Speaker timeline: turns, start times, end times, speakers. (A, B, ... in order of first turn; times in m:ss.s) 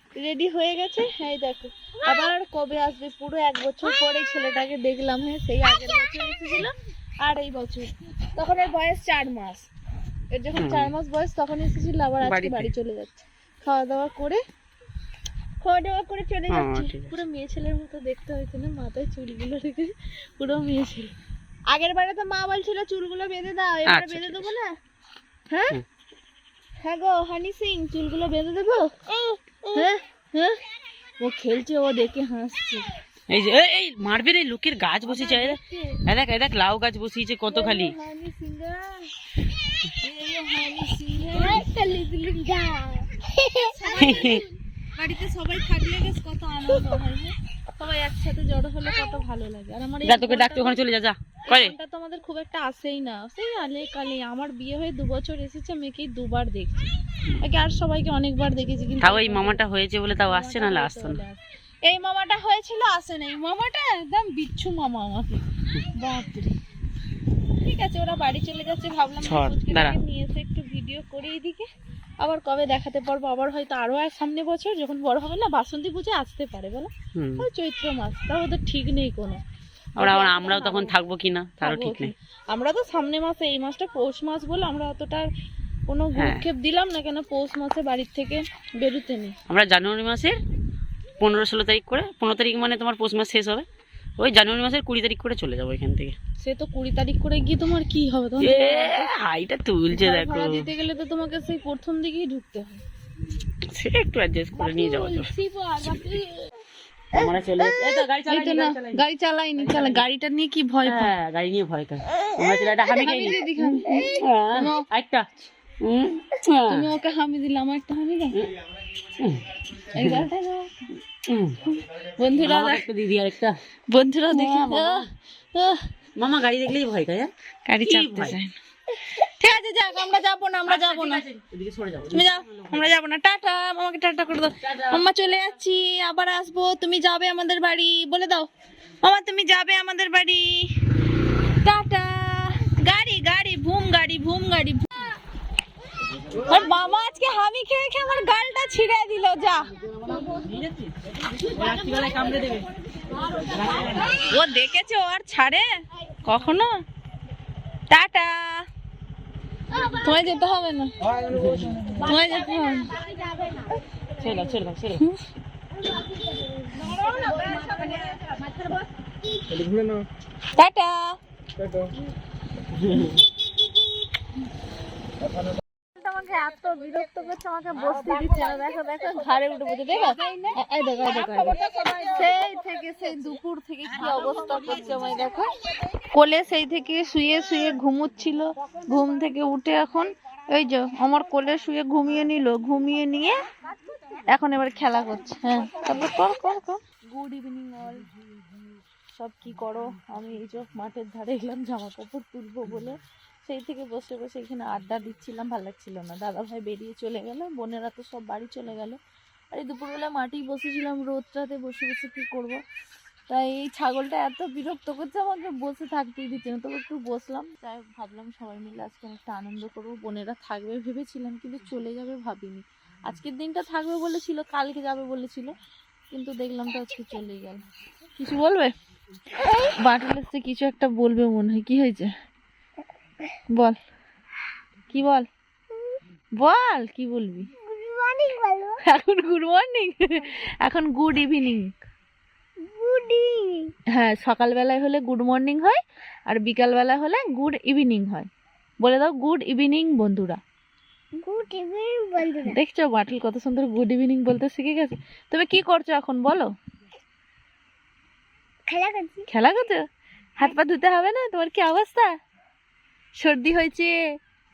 0:00.2-0:09.7 A
0:10.3-0:14.4 A
0:10.6-0:10.9 B
0:12.2-0:12.7 B
0:15.6-0:21.1 A
0:16.5-0:17.2 B
0:21.7-0:24.7 A
0:23.9-0:24.6 B
0:25.5-0:25.8 A
0:26.8-0:30.6 A
0:31.2-0:32.9 A
0:33.3-0:38.0 B
0:35.1-0:36.0 A
0:37.5-0:39.1 A
0:40.0-0:41.7 A
0:41.4-0:43.9 C
0:43.6-0:50.8 A
0:44.0-0:44.5 B
0:50.0-0:51.8 B
0:51.5-0:59.6 A
0:59.0-1:01.2 B
1:00.2-1:05.4 A
1:05.9-1:06.6 A
1:07.6-1:11.7 A
1:09.2-1:10.0 B
1:12.2-1:19.4 A
1:17.2-1:17.5 B
1:20.0-1:20.9 A
1:20.0-1:22.1 B
1:21.6-1:25.3 A
1:25.9-1:29.4 A
1:26.2-1:26.5 B
1:29.5-1:30.4 B
1:31.2-1:33.6 B
1:34.2-1:36.2 B
1:36.4-1:39.1 A
1:38.4-1:40.7 B
1:39.9-1:42.8 A
1:43.7-1:45.3 B
1:44.6-1:46.5 A
1:47.1-1:49.1 B
1:47.2-1:51.1 A
1:49.6-1:50.0 B
1:50.8-1:56.9 B
1:52.9-1:54.9 A
1:56.7-1:58.4 A
1:59.2-2:00.3 B
1:59.9-2:00.8 A
2:01.1-2:01.7 B
2:02.0-2:02.8 A
2:02.4-2:03.6 B
2:03.9-2:05.8 A
2:04.3-2:05.1 B
2:06.2-2:07.3 B
2:07.7-2:11.2 A
2:07.8-2:08.4 B
2:10.7-2:12.9 B
2:12.1-2:18.5 A
2:14.6-2:15.0 B
2:19.0-2:20.7 A
2:21.6-2:25.0 A
2:26.4-2:29.7 A
2:30.1-2:32.7 B
2:33.4-2:34.2 B
2:34.1-2:35.7 A
2:36.2-2:36.7 A
2:37.9-2:38.6 A
2:39.7-2:40.9 A
2:41.3-2:41.9 B
2:42.0-2:43.0 A
2:44.1-2:45.0 B
2:45.0-2:45.2 A
2:46.8-2:48.2 C
2:47.2-2:47.9 A
2:50.6-2:51.2 A
2:52.7-2:53.2 B
2:56.0-3:05.5 A
3:06.1-3:13.4 A
3:14.3-3:18.1 A
3:19.2-3:29.0 A
3:29.5-3:32.6 A
3:33.3-3:45.6 A
3:46.1-3:47.6 A
3:48.2-3:48.7 A
3:49.7-3:52.1 A
3:53.5-3:53.8 A
3:54.9-3:55.3 A
3:55.7-3:56.0 C
3:56.4-3:57.5 A
3:57.6-3:58.8 C
3:58.8-4:01.7 A
4:02.6-4:03.8 C
4:03.9-4:08.3 A
4:08.8-4:10.4 A
4:11.2-4:12.6 C
4:12.4-4:16.5 A
4:18.7-4:19.3 C
4:19.3-4:19.8 A
4:20.4-4:22.1 A
4:23.2-4:24.0 A